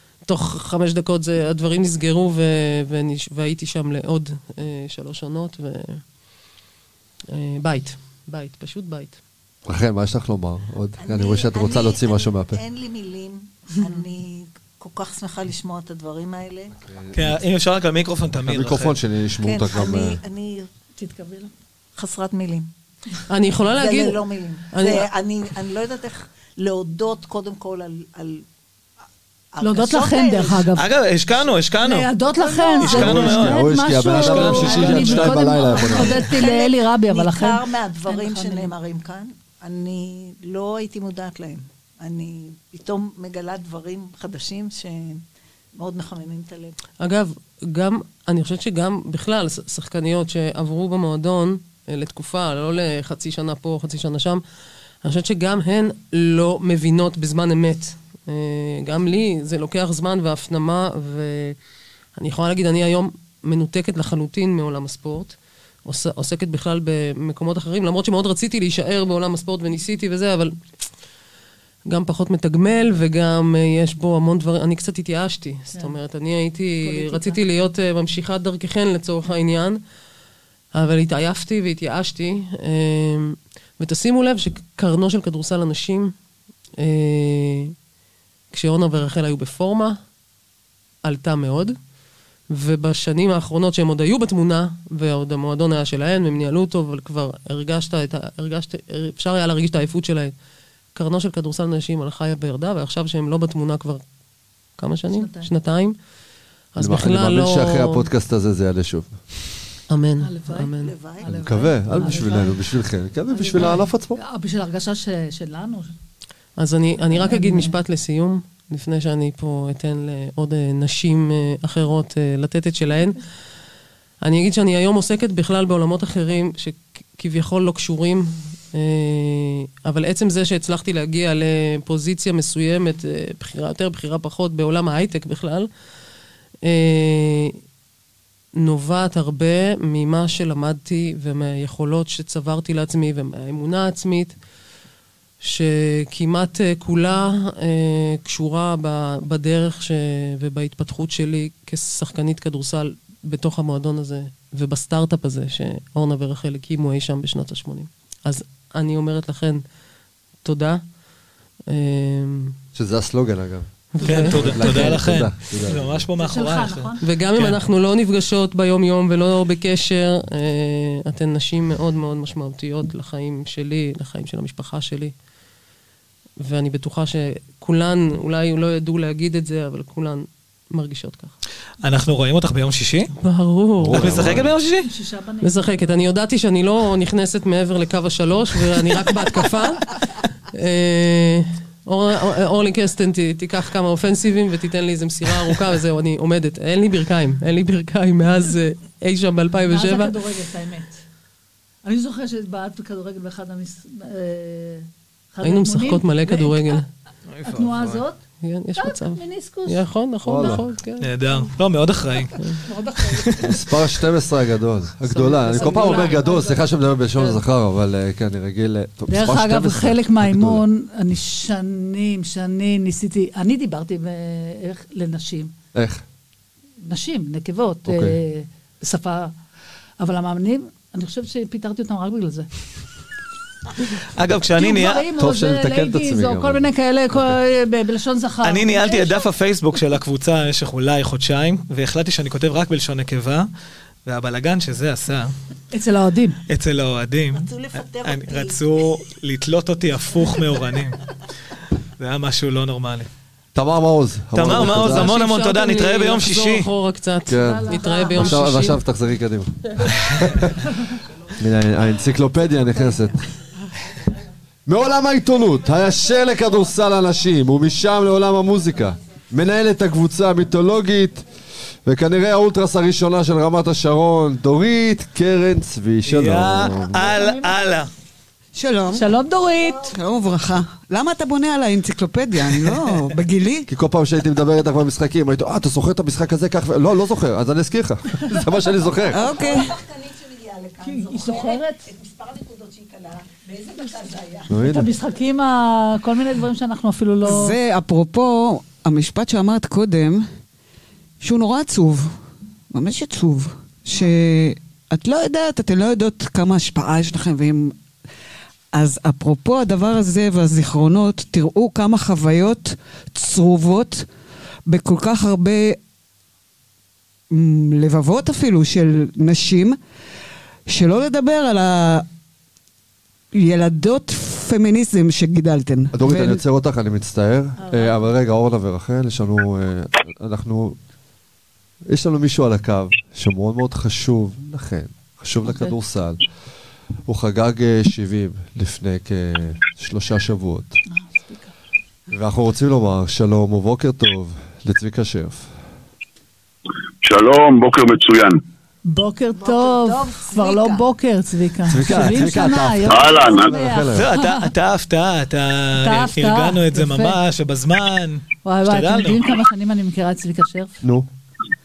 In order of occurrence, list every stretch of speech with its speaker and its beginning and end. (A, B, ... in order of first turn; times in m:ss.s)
0:00.2-0:06.1 A
0:07.3-0:09.2 A
0:09.7-0:12.6 B
0:11.0-0:16.8 C
0:16.8-0:17.4 B
0:17.2-0:19.0 D
0:18.4-0:20.2 B
0:19.4-0:20.7 C
0:21.0-0:21.5 E
0:22.0-0:22.7 C
0:23.3-0:25.1 A
0:23.7-0:28.4 C
0:29.5-0:30.7 C
0:29.6-0:30.9 E
0:30.8-0:32.1 D
0:31.8-0:38.7 E
0:32.5-0:33.0 C
0:32.8-0:33.6 D
0:32.9-0:36.3 B
0:34.1-0:45.2 C
0:45.8-0:46.8 C
0:47.0-0:54.4 A
0:55.0-1:01.6 A
1:02.2-1:10.8 A
1:11.9-1:19.8 A
1:16.8-1:17.4 E
1:20.7-1:26.1 A
1:26.8-1:27.8 A
1:28.5-1:30.1 A
1:31.0-1:31.8 A
1:32.5-1:40.4 A
1:40.9-1:44.0 A
1:44.7-1:46.0 A
1:45.1-1:45.5 E
1:46.7-1:48.1 A
1:46.8-1:49.2 B
1:49.9-1:51.0 A
1:50.2-1:52.6 E
1:50.8-1:52.3 C
1:51.2-1:54.2 B
1:53.3-1:55.9 E
1:56.6-2:03.2 A
1:57.1-1:57.7 E
2:04.2-2:15.7 A
2:16.6-2:17.6 A
2:18.6-2:24.4 A
2:25.4-2:39.6 A
2:40.4-2:41.0 A
2:41.7-2:42.6 A
2:42.8-2:46.1 B
2:43.9-2:45.2 A
2:44.0-2:47.6 D
2:46.2-2:47.0 E
2:47.0-2:55.2 A
2:56.4-3:01.3 A
3:01.8-3:03.1 D
3:03.2-3:04.4 A
3:03.8-3:04.5 B
3:03.9-3:04.9 D
3:04.9-3:06.1 E
3:05.4-3:10.0 A
3:10.6-3:20.2 A
3:19.7-3:21.0 E
3:21.8-3:26.8 E
3:25.4-3:26.9 A
3:27.3-3:28.0 D
3:27.5-3:28.2 E
3:28.4-3:31.1 A
3:28.8-3:30.6 E
3:30.2-3:30.7 B
3:31.0-3:32.4 D
3:32.7-3:33.4 E
3:33.4-3:40.6 B
3:35.1-3:36.6 A
3:35.3-3:36.6 E
3:37.2-3:37.4 A
3:39.1-3:45.5 E
3:45.7-3:46.0 B
3:46.8-3:49.3 E
3:47.9-3:48.2 B
3:50.0-3:52.5 E
3:54.2-3:55.1 D
3:54.6-3:59.3 E
3:55.2-3:57.4 B
3:58.4-4:03.5 D
4:04.1-4:05.3 D
4:05.7-4:06.4 E
4:06.5-4:07.5 D
4:07.4-4:08.6 C
4:08.0-4:11.0 D
4:12.0-4:13.1 D
4:13.6-4:15.1 B
4:14.4-4:16.7 D
4:14.5-4:18.7 A
4:17.3-4:20.6 B
4:17.3-4:18.7 E
4:21.3-4:23.2 B
4:24.7-4:31.2 B
4:31.8-4:37.1 B
4:36.0-4:37.9 D
4:37.0-4:37.6 E
4:38.6-4:39.1 F
4:38.9-4:39.9 E
4:39.6-4:39.9 C
4:39.9-4:43.7 F
4:43.7-4:49.2 B
4:49.1-4:49.7 F
4:49.2-4:54.7 C
4:50.8-4:51.8 E
4:54.5-4:54.9 B
4:54.6-4:57.6 E
4:57.2-5:00.3 F
5:01.2-5:02.2 F
5:02.7-5:07.8 F
5:08.8-5:14.1 F
5:14.7-5:15.8 F
5:17.3-5:19.8 F
5:20.7-5:22.0 F
5:23.4-5:26.4 F
5:25.9-5:30.8 B
5:27.6-5:28.0 E
5:31.9-5:36.2 B
5:37.1-5:40.8 B
5:40.9-5:41.5 E
5:42.1-5:45.5 B
5:47.0-5:48.4 G
5:48.9-5:54.5 E
5:49.4-5:50.9 C
5:51.7-5:54.1 B
5:52.9-5:53.5 G
5:54.0-5:59.2 D
5:55.8-5:57.2 E
5:58.4-6:00.8 E
6:00.8-6:01.1 B